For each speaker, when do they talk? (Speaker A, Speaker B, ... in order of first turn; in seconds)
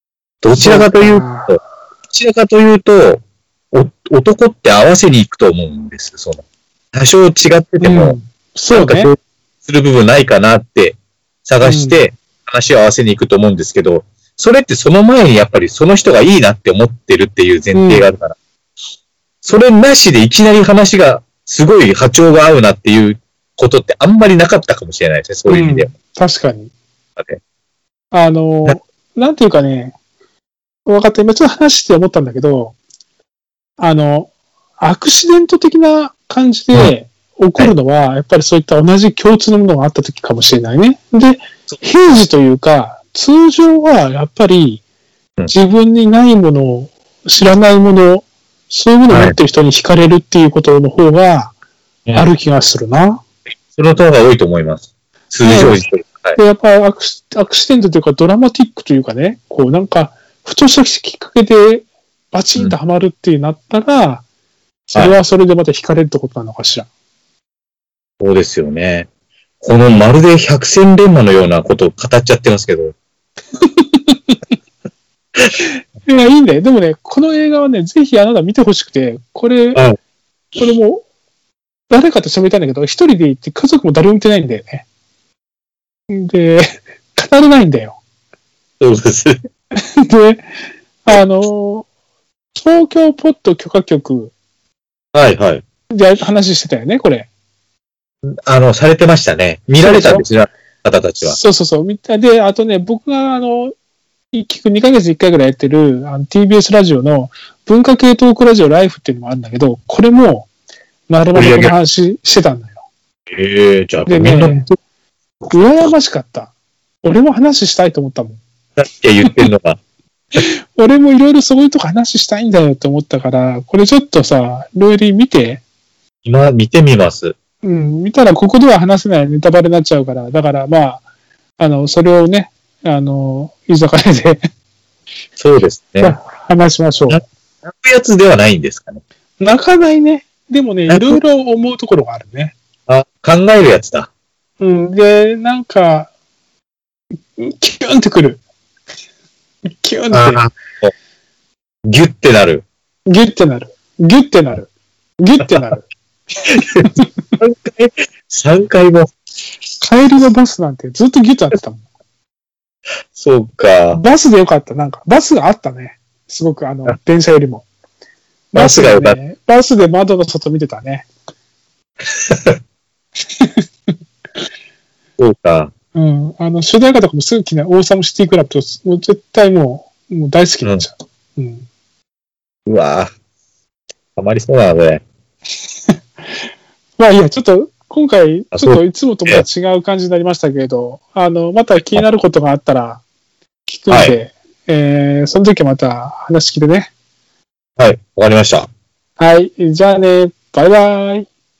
Speaker A: 0.4-8.2, 8.7-18.4, 19.4-25.9, 49.1-49.4, 53.7-56.4, 68.2-69.1, 69.6-72.9, 88.8-89.4, 95.1-95.6, 98.5-101.4, 111.3-111.7, 113.3-114.7, 118.8-119.8, 126.2-127.3, 135.4-136.2, 137.1-139.0, 140.9-141.2, 142.9-144.1, 150.1-150.9, 151.9-152.6, 156.5-159.1, 163.1-164.0, 168.5-169.2, 172.3-172.6, 175.2-175.7, 182.7-183.1, 184.2-185.0, 188.5-189.4, 193.9-194.1, 197.8-198.7
Speaker B: 0.6-1.6, 7.8-9.1, 11.6-12.0, 17.7-18.1, 25.5-26.7, 28.1-29.9, 30.9-32.8, 33.8-44.8, 45.5-51.5, 52.1-53.2, 55.4-55.8, 56.4-64.2, 64.9-66.9, 73.6-74.4, 76.0-79.8, 80.6-81.0, 81.9-84.8, 86.1-88.0, 90.0-90.4, 91.0-91.9, 92.5-94.3, 95.9-97.3, 99.8-100.2, 101.2-103.7, 104.3-110.5, 111.1-112.8, 114.1-114.6, 115.5-118.4, 120.3-125.6, 127.6-131.0, 131.6-134.4, 136.0-137.2, 139.4-142.6, 144.6-146.1, 147.3-148.4, 149.8-150.4, 153.1-155.8, 159.8-161.8, 163.9-167.7, 168.5-171.1, 175.9-181.7, 187.0-193.0, 193.6-196.9, 199.2-201.3